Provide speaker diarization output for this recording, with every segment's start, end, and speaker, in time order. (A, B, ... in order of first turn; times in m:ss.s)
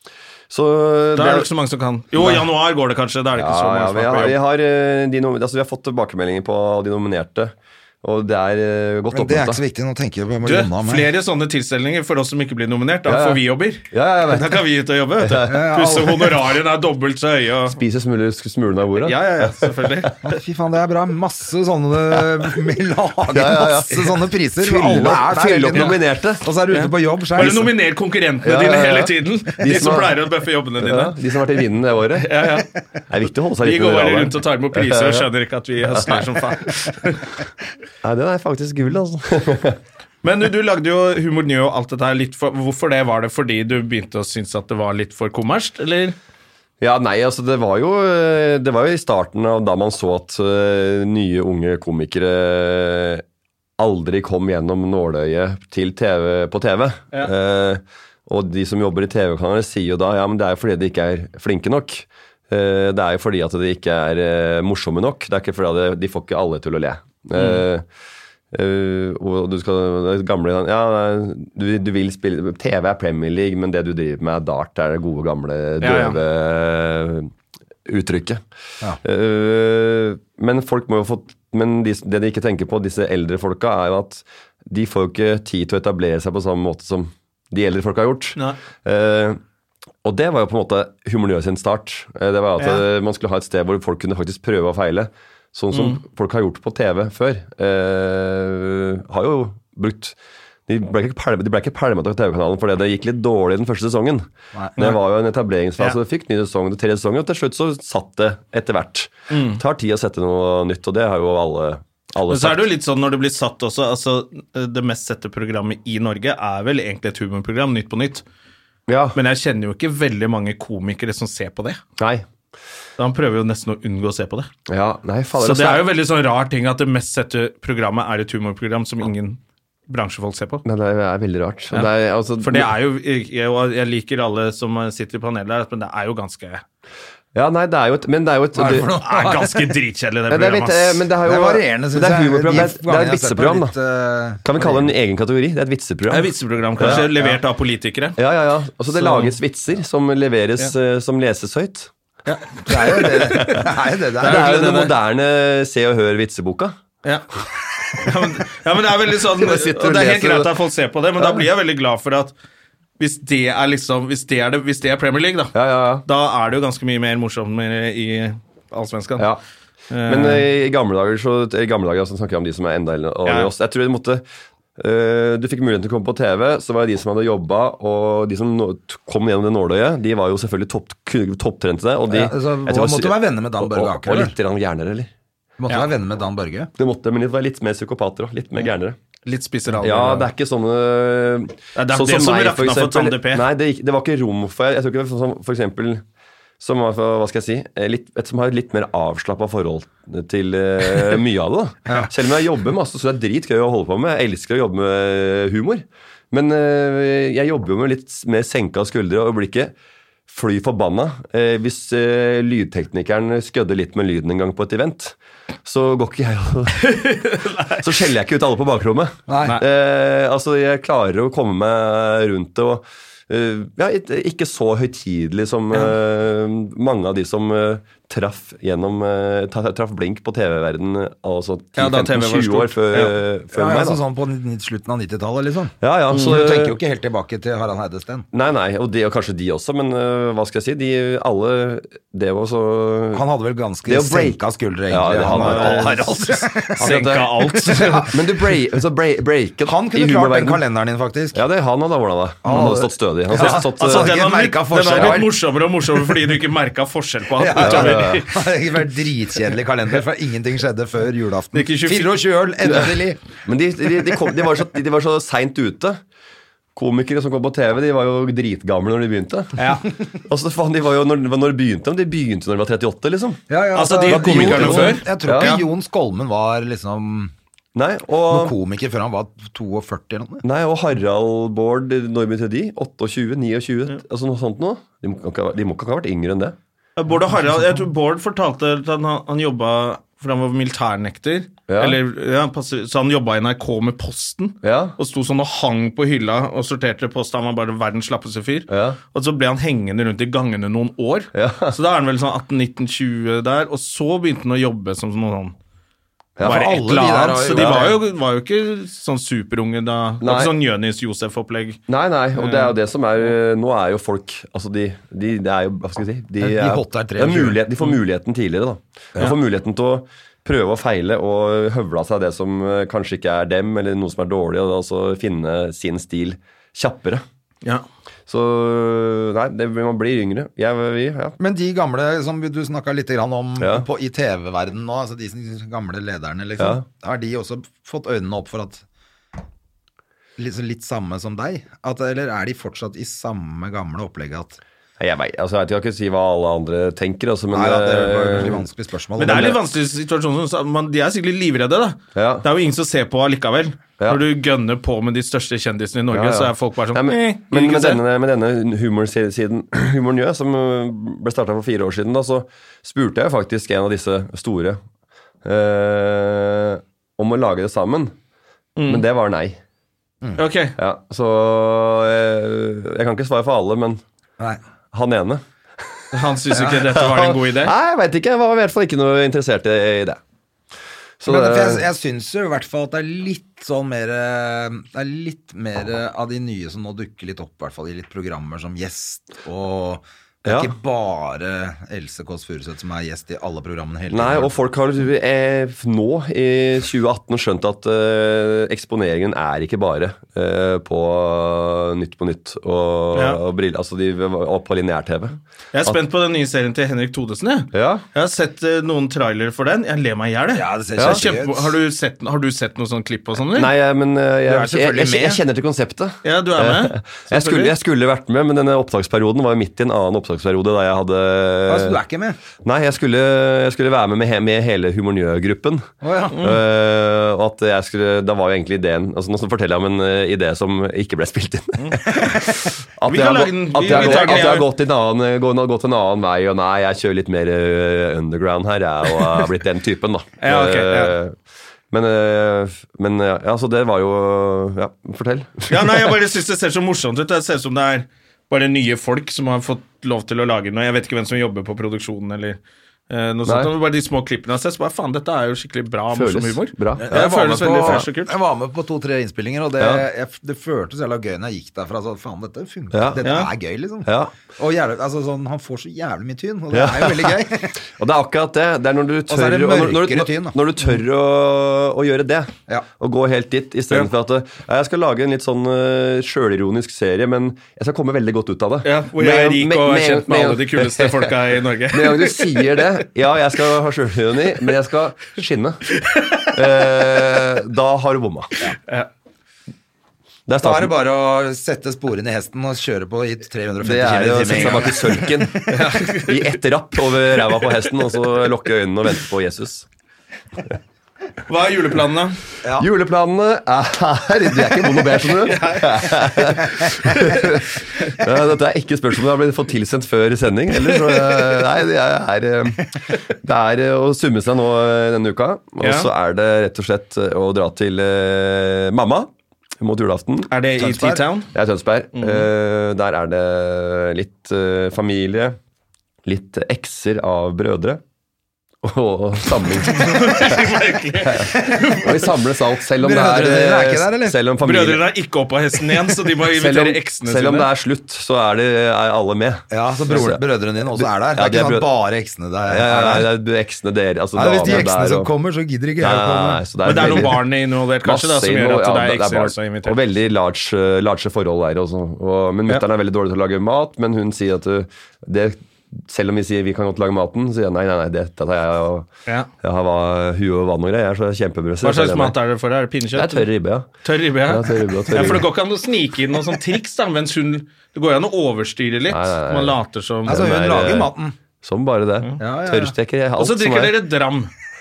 0:00.5-0:01.5 A
0:01.2-0:04.4 B
0:03.3-0:09.6 A
0:09.1-0:11.0 C
0:10.4-0:17.8 B
0:13.0-0:14.6 A
0:15.2-0:15.5 A
0:15.5-0:16.3 C
0:17.7-0:19.9 A
0:19.0-0:20.2 B
0:20.2-0:27.7 C
0:23.3-0:26.4 A
0:26.7-0:31.1 B
0:28.4-0:30.2 A
0:30.8-0:32.5 A
0:32.2-0:32.7 B
0:33.1-0:35.3 A
0:33.6-0:37.3 B
0:35.9-0:36.3 A
0:38.0-0:39.8 A
0:40.2-0:46.2 B
0:46.8-0:53.2 A
0:53.8-1:07.9 A
1:07.4-1:07.6 B
1:08.5-1:17.3 A
1:15.8-1:16.2 B
1:17.9-1:18.4 A
1:19.0-1:29.4 A
1:30.0-1:40.2 A
1:32.6-1:32.8 B
1:35.7-1:36.0 B
1:40.7-1:52.7 A
1:49.3-1:49.6 B
1:52.3-1:58.2 B
1:58.9-1:59.2 A
1:59.1-2:01.8 B
2:02.0-2:02.2 A
2:03.0-2:04.5 B
2:04.7-2:05.8 A
2:05.4-2:10.6 B
2:10.6-2:12.7 A
2:11.7-2:16.6 B
2:17.3-2:19.0 A
2:18.6-2:19.7 C
2:19.0-2:21.0 B
2:20.3-2:23.7 A
2:21.2-2:24.9 C
2:24.4-2:27.1 A
2:26.1-2:28.2 B
2:26.8-2:27.4 C
2:28.2-2:31.9 A
2:28.9-2:29.4 B
2:32.3-2:33.7 B
2:32.7-2:34.9 C
2:33.3-2:33.7 A
2:34.2-2:36.8 A
2:34.2-2:34.8 B
2:37.9-2:42.3 B
2:39.3-2:40.5 A
2:41.2-2:41.4 A
2:43.0-2:49.3 B
2:45.5-2:46.0 A
2:49.9-2:50.4 B
2:50.0-2:54.2 A
2:53.3-2:53.5 B
2:54.8-3:05.1 A
3:02.1-3:04.3 C
3:05.6-3:06.7 C
3:06.8-3:09.0 A
3:09.3-3:10.3 B
3:09.8-3:16.0 A
3:11.8-3:13.4 B
3:16.6-3:29.7 A
3:30.3-3:54.0 A
3:36.8-3:37.8 B
3:39.3-3:39.6 C
3:51.8-3:53.1 B
3:53.5-3:58.3 C
3:55.8-3:56.8 A
3:58.3-4:03.2 A
4:03.1-4:06.9 C
4:03.9-4:06.0 A
4:05.3-4:08.1 B
4:06.8-4:10.6 A
4:07.4-4:08.2 C
4:09.6-4:11.4 C
4:11.3-4:14.2 A
4:12.4-4:15.3 C
4:13.3-4:18.4 B
4:14.9-4:15.3 A
4:17.4-4:23.2 C
4:17.6-4:18.3 A
4:21.5-4:22.3 B
4:23.4-4:26.0 A
4:26.7-4:29.7 A
4:29.6-4:29.8 B
4:30.3-4:33.4 A
4:33.5-4:37.3 C
4:33.7-4:35.6 B
4:34.0-4:35.6 A
4:37.7-4:38.5 A
4:38.3-4:40.4 C
4:40.4-4:46.6 A
4:47.0-5:05.6 B
4:51.7-4:52.0 A
4:54.6-4:55.0 A
4:58.7-4:59.0 A
5:01.3-5:01.8 A
5:06.4-5:06.6 A
5:06.4-5:08.0 C
5:06.4-5:11.8 B
5:07.6-5:07.9 A
5:10.2-5:10.5 A
5:11.9-5:27.2 A
5:12.3-5:12.7 B
5:16.4-5:17.6 C
5:28.3-5:31.4 A
5:31.4-5:38.8 C
5:33.6-5:33.9 A
5:36.6-5:36.8 A
5:40.4-5:44.6 C
5:45.0-5:48.6 A
5:47.5-5:49.6 C
5:49.2-5:58.0 B
5:49.2-5:49.6 A
5:52.1-5:52.4 A
5:56.1-6:04.8 A
6:05.4-6:08.1 A
6:08.8-6:09.0 B
6:08.9-6:09.6 A
6:10.4-6:10.8 B
6:10.8-6:14.0 A
6:14.9-6:15.4 A
6:16.1-6:17.7 B
6:16.6-6:20.2 A
6:21.2-6:21.8 A
6:21.2-6:34.5 C
6:30.4-6:30.7 A
6:34.1-6:46.0 A
6:43.1-6:43.4 B
6:45.7-6:53.7 B
6:47.7-6:48.0 A
6:50.5-6:51.7 C
6:51.0-6:51.2 A
6:53.5-7:02.0 A
6:54.4-6:55.4 C
6:56.2-6:57.7 B
7:01.7-7:02.4 C
7:02.6-7:21.4 A
7:06.0-7:06.4 C
7:06.3-7:06.6 B
7:12.2-7:12.6 C
7:13.1-7:14.7 B
7:20.4-7:21.2 B
7:21.9-7:26.1 A
7:25.7-7:32.6 B
7:33.1-7:38.3 B
7:33.4-7:33.7 A
7:36.1-7:38.0 A
7:37.0-7:47.8 C
7:39.8-7:40.0 A
7:42.9-7:43.2 A
7:43.2-7:43.5 B
7:44.0-7:44.3 A
7:46.7-8:01.4 A
7:49.3-7:50.6 C
7:58.8-8:02.8 B
8:01.9-8:08.5 A
8:06.0-8:06.9 B
8:10.5-8:10.9 A
8:10.6-8:15.6 C
8:13.8-8:19.9 A
8:14.5-8:14.8 B
8:15.7-8:16.5 B
8:21.5-8:22.4 B
8:22.7-8:40.5 A
8:25.3-8:26.6 B
8:35.8-8:36.1 B
8:40.5-8:41.5 B
8:40.8-8:41.2 C
8:41.5-8:45.6 A
8:42.1-8:42.5 B
8:46.2-8:48.0 A
8:48.8-8:50.6 A
8:49.8-8:52.3 B
8:51.2-8:55.1 A
8:53.0-8:54.4 C
8:54.6-8:57.7 B
8:56.4-9:01.9 A
8:59.7-9:03.3 C
9:02.7-9:05.3 A
9:04.3-9:07.3 C
9:06.0-9:07.5 A
9:06.8-9:10.0 B
9:08.0-9:19.1 A
9:19.6-9:22.4 A
9:21.8-9:23.5 B
9:23.1-9:23.9 A
9:24.0-9:30.4 B
9:24.4-9:25.5 A
9:29.1-9:34.0 A
9:30.3-9:31.3 C
9:32.4-9:32.9 C
9:33.4-9:34.5 B